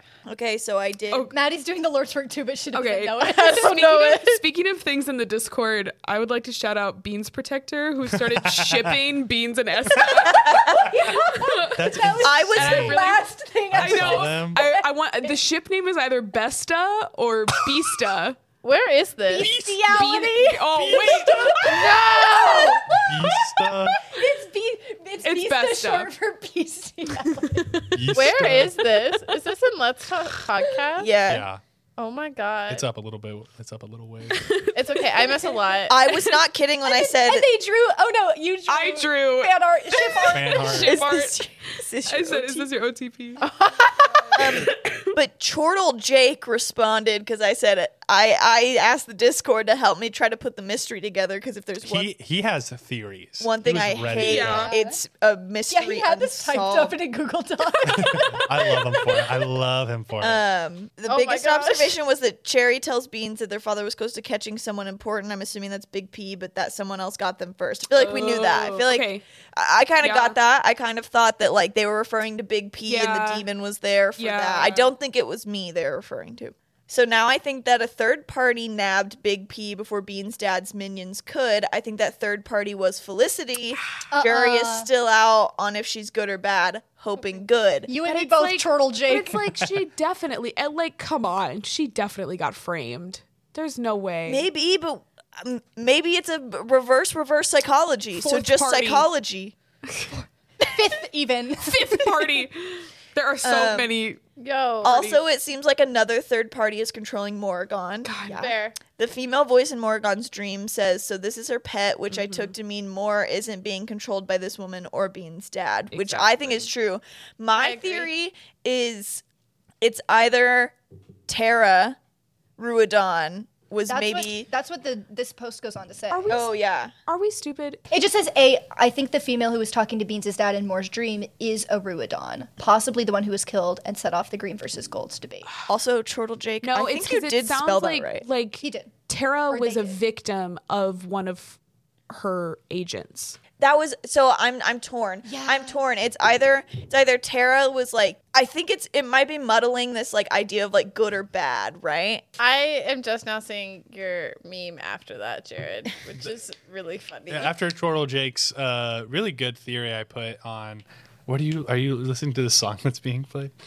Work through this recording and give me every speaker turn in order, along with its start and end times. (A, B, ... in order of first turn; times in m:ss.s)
0:00.3-0:01.3 A
0:01.3-0:04.0 B
0:02.7-0:18.4 C
0:03.3-0:04.4 D
0:08.1-0:09.0 E
0:09.9-0:10.3 E
0:10.2-0:10.9 A
0:10.6-0:15.4 B
0:11.7-0:13.0 E
0:12.2-0:13.0 A
0:13.7-0:14.6 E
0:18.6-0:19.5 D
0:19.3-0:27.7 B
0:19.4-0:22.0 C
0:20.8-0:22.0 E
0:21.7-0:22.9 D
0:23.0-0:24.0 E
0:25.2-0:26.1 C
0:27.3-0:29.3 C
0:27.9-0:28.8 E
0:28.1-0:31.1 D
0:31.0-0:31.5 A
0:31.3-0:31.6 E
0:32.0-0:32.9 D
0:32.7-0:34.4 E
0:34.3-0:35.5 C
0:34.8-0:36.0 D
0:35.9-0:37.5 A
0:36.1-0:36.4 C
0:36.9-0:41.1 B
0:38.7-0:41.4 C
0:40.3-0:41.0 E
0:40.6-0:42.7 A
0:42.1-0:43.4 C
0:43.4-0:44.3 D
0:44.3-0:45.2 C
0:44.4-0:52.1 A
0:51.8-0:54.7 E
0:53.4-0:57.0 A
0:54.2-0:54.7 C
0:54.5-0:55.0 B
0:55.7-0:59.0 B
0:57.9-1:00.4 E
1:00.2-1:27.9 A
1:01.1-1:02.0 D
1:08.0-1:09.2 C
1:10.0-1:10.4 C
1:12.9-1:13.5 C
1:14.2-1:14.9 C
1:24.1-1:24.9 B
1:27.9-1:29.6 B
1:28.0-1:34.5 C
1:34.3-1:39.6 A
1:38.2-1:39.1 C
1:39.9-1:40.2 C
1:40.6-1:42.4 B
1:41.6-1:44.2 C
1:43.4-1:43.9 A
1:44.4-1:45.2 D
1:44.8-1:59.2 A
1:48.0-1:48.5 C
1:48.4-1:48.8 D
1:52.1-1:52.5 C
1:55.9-1:56.7 C
1:57.5-1:58.1 D
1:59.8-2:00.8 A
2:01.3-2:02.0 A
2:02.6-2:04.5 A
2:03.9-2:06.4 B
2:06.1-2:06.5 C
2:06.3-2:06.9 A
2:07.1-2:07.8 C
2:07.9-2:15.5 B
2:15.7-2:18.3 A
2:16.6-2:23.4 C
2:18.6-2:18.9 B
2:19.5-2:20.0 B
2:23.6-2:32.2 A
2:25.2-2:25.8 B
2:32.4-2:37.5 D
2:37.3-2:43.5 E